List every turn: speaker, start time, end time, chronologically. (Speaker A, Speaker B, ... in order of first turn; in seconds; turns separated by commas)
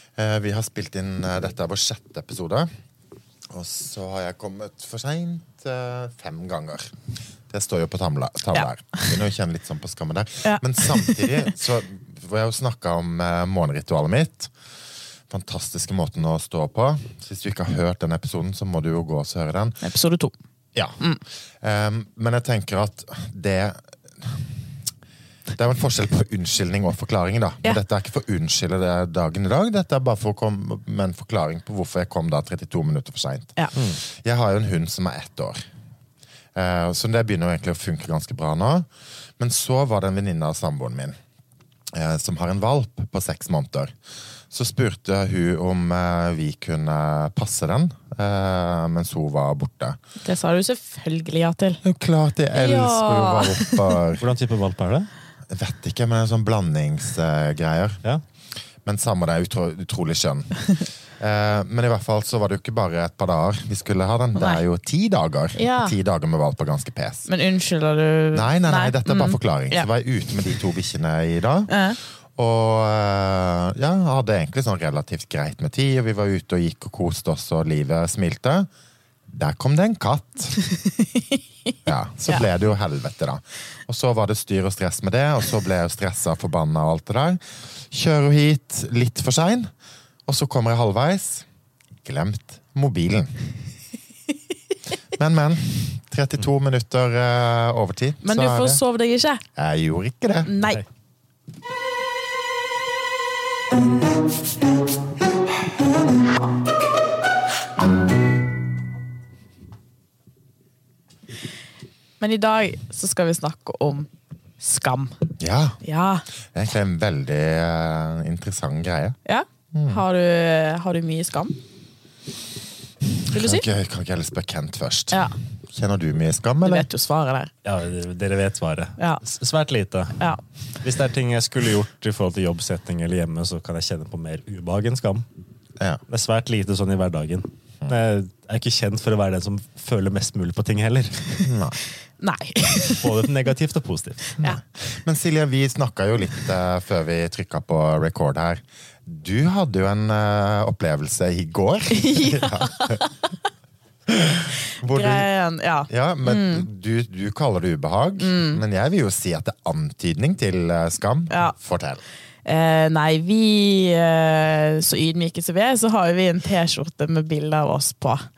Speaker A: 0.1-2.7, Speaker A: 3.5-6.9, Speaker A: 7.5-14.5, Speaker B: 8.5-9.2, Speaker B: 10.4-11.5, Speaker A: 15.3-19.8, Speaker B: 19.8-20.3, Speaker A: 21.6-24.5, Speaker A: 25.6-35.6, Speaker A: 36.5-38.9, Speaker A: 39.4-41.1, Speaker A: 41.9-43.9, Speaker A: 44.5-50.0, Speaker B: 50.2-51.8, Speaker A: 51.8-54.3, Speaker B: 52.5-54.0, Speaker C: 54.2-55.1, Speaker A: 55.5-58.0, Speaker A: 58.8-67.3, Speaker B: 64.3-64.6, Speaker B: 65.5-66.0, Speaker B: 67.3-69.9, Speaker A: 68.3-71.7, Speaker B: 71.7-72.0, Speaker A: 72.3-78.7, Speaker A: 79.3-80.6, Speaker B: 80.8-81.4, Speaker A: 81.8-89.7, Speaker A: 90.3-91.4, Speaker A: 92.0-93.3, Speaker A: 95.1-98.8, Speaker B: 98.2-99.4, Speaker A: 99.5-100.5, Speaker B: 100.4-100.8, Speaker B: 112.2-114.1, Speaker B: 114.6-115.2, Speaker A: 115.4-115.8, Speaker B: 115.8-116.2, Speaker A: 116.5-119.2, Speaker B: 119.2-121.6, Speaker A: 119.7-120.0, Speaker A: 123.3-126.9, Speaker B: 123.3-123.7, Speaker B: 126.6-127.5, Speaker C: 127.6-130.2, Speaker B: 129.0-129.2, Speaker C: 130.8-135.2, Speaker C: 136.1-141.4, Speaker A: 141.4-141.8, Speaker B: 142.2-143.2, Speaker C: 143.0-144.4, Speaker A: 144.4-153.0, Speaker B: 151.9-153.2, Speaker A: 154.1-155.3, Speaker B: 154.8-156.7, Speaker A: 155.9-162.0, Speaker B: 158.2-158.6, Speaker B: 161.3-161.5, Speaker B: 162.4-168.3